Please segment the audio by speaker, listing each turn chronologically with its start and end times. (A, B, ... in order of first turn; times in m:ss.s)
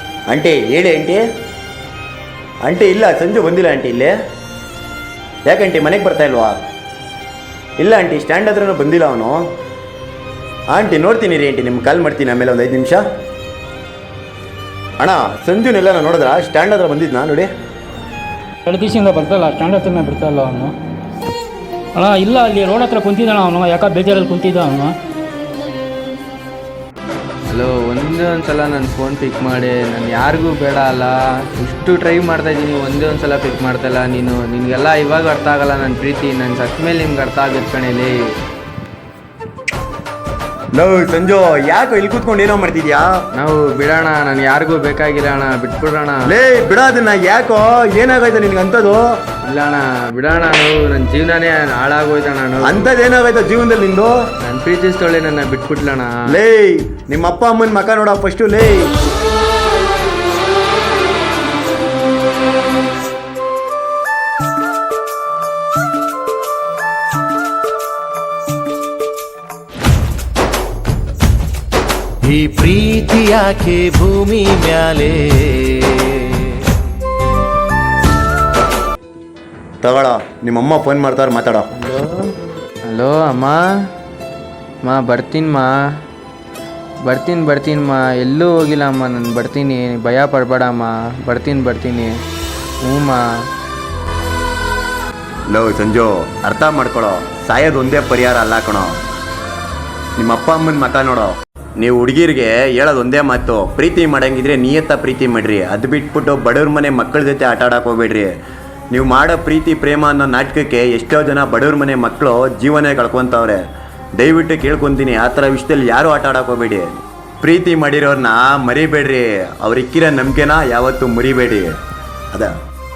0:00.3-0:01.2 A
0:02.6-0:04.1 A
0:05.5-0:06.6 A
0:07.8-0:09.4 A
0:10.7-0:13.0 A
0:15.0-0:17.5 A
0:18.7-0:20.8 B
0:22.0-0:25.0 B
0:27.5-0:38.2 C
0:40.8-0:43.1 A
0:43.4-0:46.2 C
0:46.3-0:49.0 A
0:49.4-0:52.9 C
0:52.6-0:54.2 A
0:54.4-0:56.2 C
0:56.3-0:58.9 A
1:12.2-1:16.4 D
1:19.8-1:21.7 A
1:21.7-1:22.3 C
1:22.9-1:23.6 C
1:24.8-1:25.8 C
1:27.1-1:32.1 C
1:32.8-1:33.2 C
1:35.5-1:39.0 A
1:40.2-1:48.3 A
1:48.9-1:53.6 A
1:54.2-1:56.9 A
1:57.4-2:01.8 A